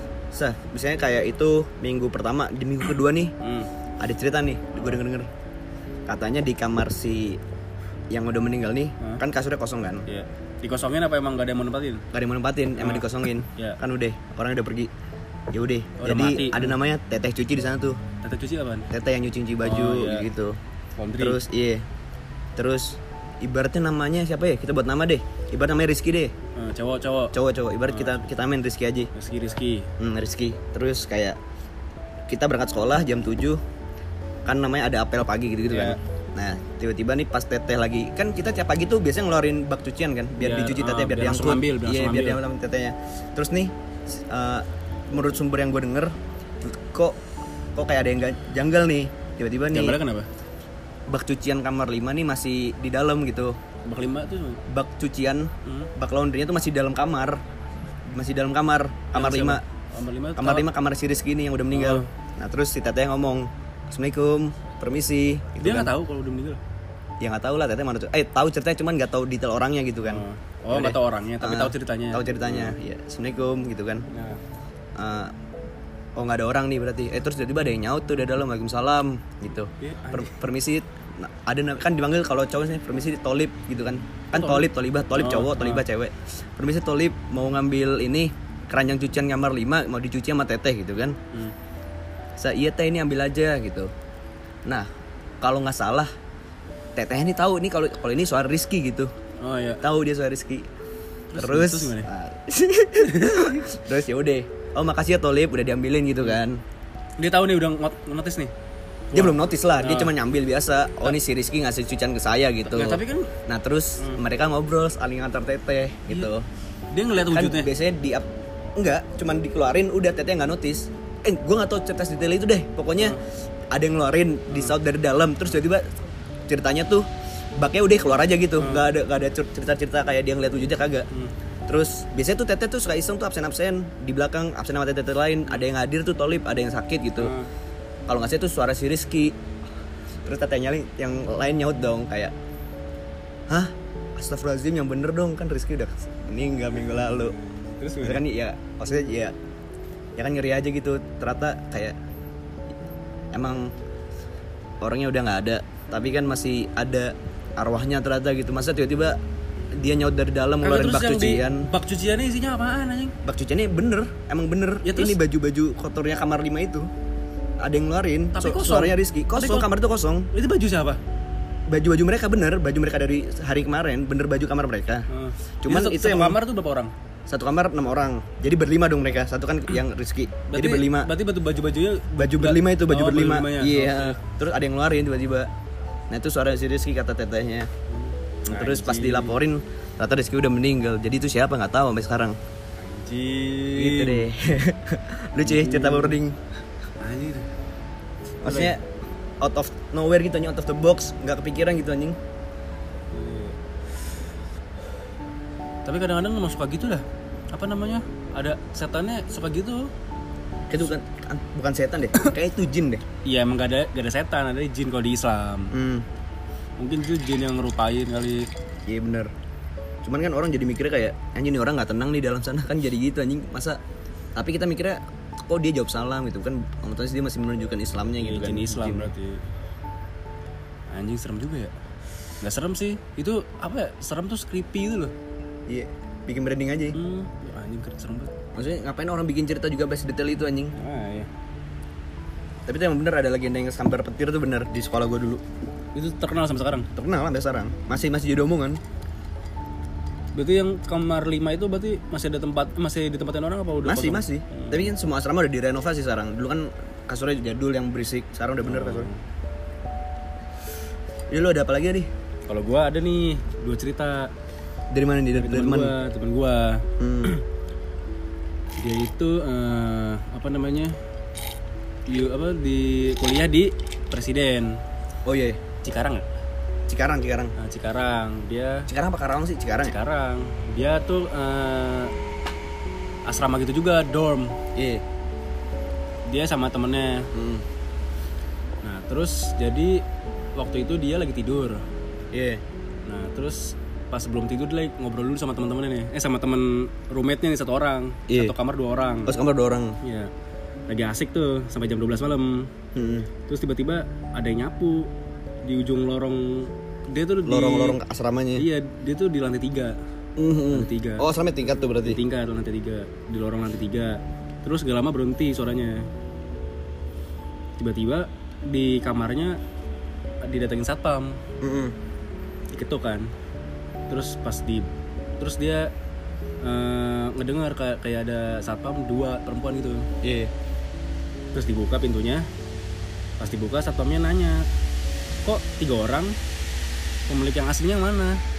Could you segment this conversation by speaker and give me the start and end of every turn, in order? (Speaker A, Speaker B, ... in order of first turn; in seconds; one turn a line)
Speaker A: 0.3-3.3
Speaker B: 3.4-3.7
Speaker A: 4.0-5.3
Speaker B: 4.7-5.0
Speaker A: 6.1-7.4
Speaker A: 8.1-10.1
Speaker B: 10.1-12.1
Speaker A: 12.1-14.9
Speaker B: 12.8-13.8
Speaker A: 15.5-18.0
Speaker B: 16.0-16.8
Speaker B: 18.2-18.9
Speaker A: 18.9-20.6
Speaker B: 19.6-20.3
Speaker B: 21.0-21.4
Speaker A: 21.2-21.9
Speaker A: 22.6-26.3
Speaker B: 26.6-27.4
Speaker A: 27.3-29.1
Speaker B: 27.9-28.2
Speaker B: 29.1-29.9
Speaker A: 30.0-31.4
Speaker A: 32.3-33.6
Speaker A: 34.5-47.2
Speaker B: 35.7-36.0
Speaker B: 40.4-42.4
Speaker A: 47.8-50.0
Speaker B: 49.7-50.3
Speaker A: 51.1-53.6
Speaker B: 53.9-54.6
Speaker A: 54.7-57.4
Speaker B: 55.6-55.9
Speaker A: 58.1-59.6
Speaker B: 59.1-60.7
Speaker A: 60.4-65.9
Speaker B: 61.7-62.1
Speaker B: 65.6-66.6
Speaker A: 67.2-74.1
Speaker B: 70.0-72.8
Speaker B: 74.1-74.4
Speaker A: 75.0-75.3
Speaker A: 76.2-91.2
Speaker B: 79.8-80.4
Speaker B: 84.3-85.8
Speaker A: 92.4-93.9
Speaker A: 95.4-96.1
Speaker A: 97.0-99.1
Speaker B: 99.4-99.8
Speaker A: 99.8-100.7
Speaker B: 101.3-102.1
Speaker A: 101.4-106.6
Speaker B: 103.0-103.6
Speaker B: 107.2-108.5
Speaker B: 109.1-110.1
Speaker A: 109.1-116.5
Speaker B: 112.7-113.3
Speaker B: 116.9-117.7
Speaker A: 117.2-123.2
Speaker A: 123.7-125.9
Speaker A: 126.5-131.1
Speaker B: 128.6-128.9
Speaker A: 131.7-137.3
Speaker B: 137.2-137.5
Speaker A: 138.1-139.4
Speaker A: 140.2-142.3
Speaker A: 143.5-147.3
Speaker B: 147.1-148.2
Speaker A: 148.0-149.3
Speaker A: 150.2-152.0
Speaker A: 153.3-153.7
Speaker A: 154.8-159.2
Speaker A: 159.7-161.7
Speaker B: 160.6-163.2
Speaker A: 163.2-166.9
Speaker B: 164.8-165.2
Speaker A: 167.6-170.3
Speaker B: 168.3-169.7
Speaker B: 170.3-171.0
Speaker A: 171.7-175.1
Speaker B: 175.1-176.9
Speaker A: 175.6-176.4
Speaker A: 177.3-181.1
Speaker B: 180.5-184.2
Speaker A: 182.2-185.5
Speaker A: 186.1-187.7
Speaker B: 187.9-189.4
Speaker A: 188.5-192.4
Speaker B: 192.8-194.3
Speaker A: 193.8-196.5
Speaker B: 195.4-196.2
Speaker B: 197.0-197.5
Speaker B: 198.4-198.7
Speaker A: 198.4-198.8
Speaker A: 199.4-202.2
Speaker B: 203.1-203.6
Speaker B: 205.8-209.9
Speaker A: 210.7-213.0
Speaker B: 213.2-215.7
Speaker A: 215.7-216.1
Speaker B: 216.8-218.5
Speaker A: 218.9-219.3
Speaker A: 220.0-223.8
Speaker A: 224.4-229.1
Speaker B: 228.2-229.4
Speaker B: 230.9-231.7
Speaker B: 232.4-235.1
Speaker A: 235.7-237.0
Speaker B: 236.9-238.3
Speaker A: 238.5-240.8
Speaker B: 240.7-241.3
Speaker A: 242.7-245.4
Speaker B: 245.9-246.9
Speaker A: 246.9-248.8
Speaker B: 250.3-254.9
Speaker A: 253.8-259.1
Speaker B: 258.6-259.2
Speaker A: 261.3-262.1
Speaker B: 262.5-264.3
Speaker A: 264.9-265.9
Speaker B: 265.4-267.4
Speaker A: 267.0-267.4
Speaker B: 268.8-271.0
Speaker B: 272.1-274.8
Speaker A: 275.2-275.6
Speaker B: 275.8-276.2
Speaker A: 276.9-277.5
Speaker B: 277.6-278.9
Speaker A: 278.9-279.9
Speaker B: 279.8-282.1
Speaker B: 283.3-284.6
Speaker A: 284.8-285.0
Speaker B: 286.3-287.3
Speaker A: 287.3-287.6
Speaker B: 288.8-290.0
Speaker B: 290.6-291.8
Speaker A: 292.3-292.6
Speaker B: 293.1-299.4
Speaker A: 298.3-298.6
Speaker A: 299.3-300.0
Speaker B: 300.0-300.3
Speaker B: 300.9-302.7
Speaker A: 302.9-303.3
Speaker B: 303.5-305.1
Speaker B: 305.6-308.0
Speaker A: 307.5-308.7
Speaker B: 308.6-310.0
Speaker A: 310.4-312.2
Speaker B: 310.7-311.3
Speaker B: 312.0-316.1
Speaker B: 317.8-319.6
Speaker B: 320.4-321.4
Speaker A: 321.6-321.9
Speaker B: 322.7-323.3
Speaker B: 324.1-324.9
Speaker B: 325.4-325.9
Speaker B: 326.6-330.1
Speaker A: 330.2-330.5
Speaker B: 331.5-332.5
Speaker B: 333.4-334.7
Speaker B: 335.4-336.4
Speaker B: 337.3-338.4